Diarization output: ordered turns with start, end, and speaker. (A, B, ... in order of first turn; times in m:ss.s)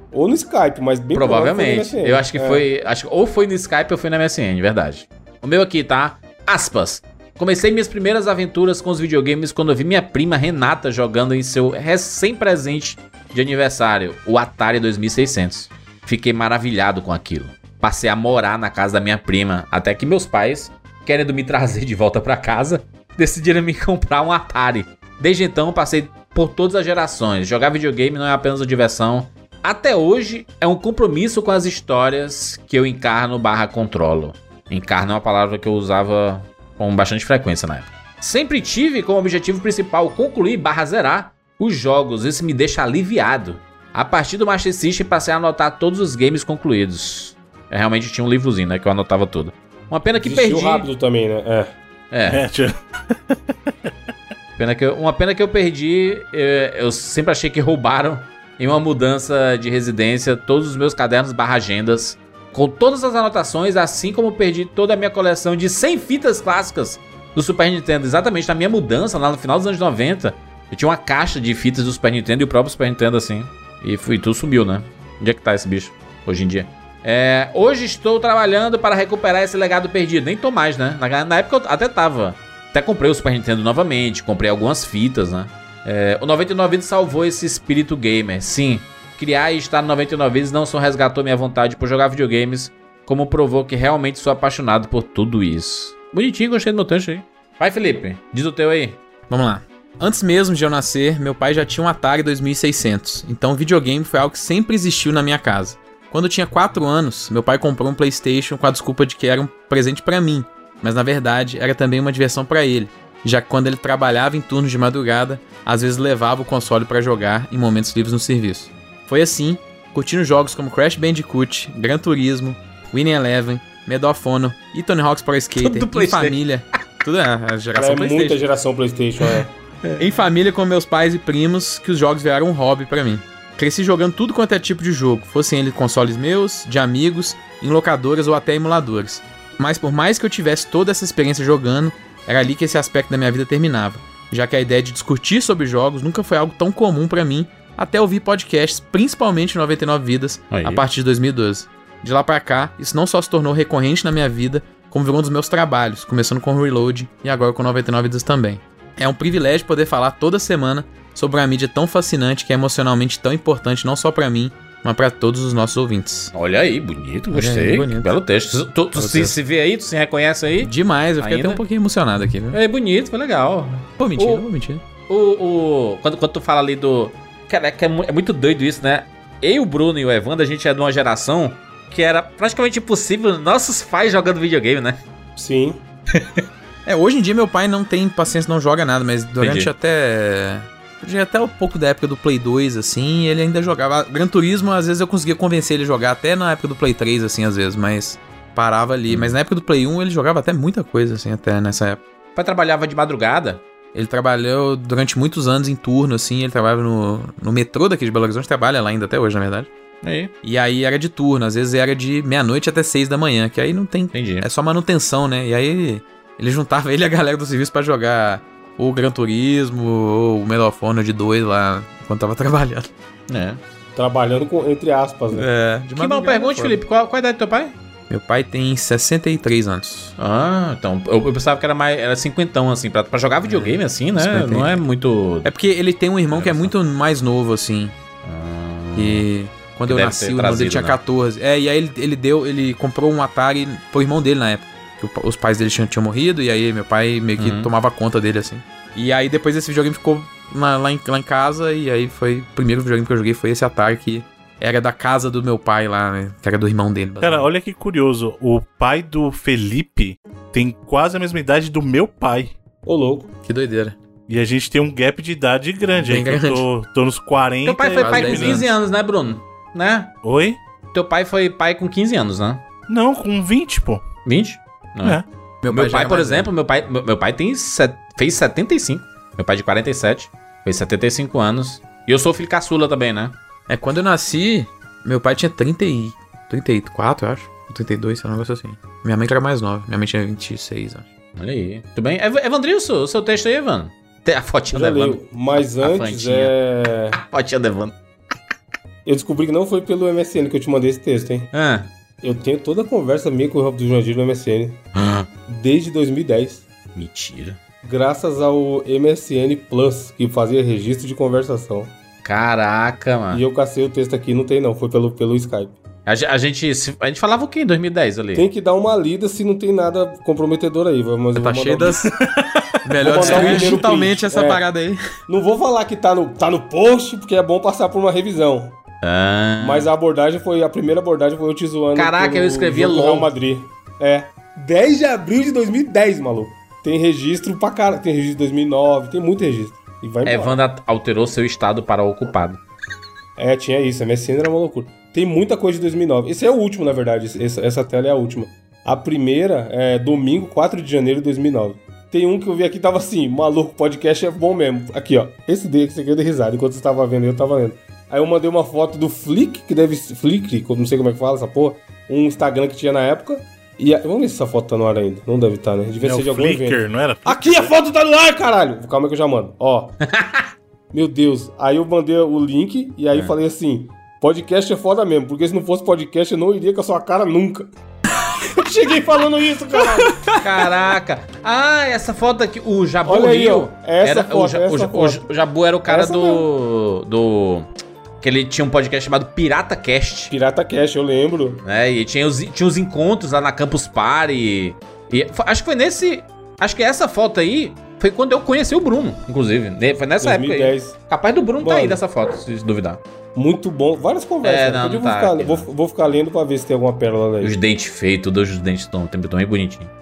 0:00.1-0:02.6 A
0:01.1-0:50.9 B
0:50.2-0:51.7 A
0:52.1-0:52.4 B
0:52.3-0:53.4 C
0:54.6-1:39.0 B
1:39.3-2:08.4 D
2:05.6-2:06.4 B
2:07.8-2:09.5 A
2:09.3-2:10.0 B
2:10.0-2:46.3 D
2:30.5-2:30.8 B
2:46.3-2:51.6 B
2:47.3-2:48.2 D
2:48.9-2:49.4 D
2:50.6-2:52.6 D
2:52.5-2:54.4 B
2:54.0-2:54.8 D
2:55.1-3:05.0 B
3:05.4-3:05.8 A
3:06.1-3:06.4 B
3:06.9-3:22.0 D
3:09.4-3:09.7 B
3:19.1-3:19.4 B
3:22.4-3:23.6 B
3:23.9-3:29.7 D
3:30.0-3:30.3 B
3:30.4-3:42.9 D
3:34.1-3:34.5 B
3:43.3-3:43.6 B
3:44.0-3:45.5 A
3:45.3-3:46.8 D
3:46.0-3:47.8 B
3:48.1-3:50.2 D
3:50.2-3:55.5 B
3:53.4-3:54.8 D
3:55.4-3:57.9 D
3:56.3-3:56.7 B
3:58.2-3:59.2 B
3:59.0-4:17.5 D
3:59.9-4:01.0 B
4:07.4-4:07.7 B
4:17.2-4:22.6 C
4:22.8-4:23.3 A
4:23.4-4:24.0 D
4:24.3-4:28.7 C
4:26.0-4:26.7 D
4:27.6-4:30.2 B
4:28.0-4:28.7 D
4:30.2-4:30.6 C
4:30.9-4:32.6 B
4:32.9-4:34.0 C
4:34.2-4:43.4 B
4:35.6-4:36.5 D
4:43.7-4:51.1 D
4:51.4-4:56.5 B
4:54.7-4:57.2 A
4:57.1-4:58.0 B
4:59.0-5:01.5 A
5:01.5-5:01.9 B
5:02.2-5:04.8 A
5:05.0-5:05.3 B
5:05.5-5:06.6 A
5:07.0-5:07.6 B
5:07.8-5:11.9 A
5:12.2-5:13.4 B
5:13.3-5:15.8 A
5:16.1-5:18.5 B
5:18.3-5:22.1 A
5:21.4-5:22.1 D
5:22.8-5:25.0 D
5:23.0-5:24.6 A
5:23.2-5:23.8 B
5:25.3-5:28.8 A
5:29.0-5:29.9 B
5:29.6-5:40.6 A
5:32.0-5:33.3 B
5:40.2-5:42.6 B
5:43.4-6:10.0 A
6:06.0-6:07.7 C
6:10.0-6:10.4 B
6:10.9-6:17.7 A
6:18.5-6:20.2 A
6:20.0-6:20.4 D
6:20.4-6:27.7 B
6:23.0-6:25.3 A
6:25.9-6:26.5 A
6:28.2-6:30.3 B
6:30.3-6:31.6 A
6:31.6-6:43.0 B
6:40.2-6:41.0 A
6:41.6-6:42.0 A
6:43.4-6:47.6 A
6:44.4-6:45.7 B
6:47.4-6:49.9 B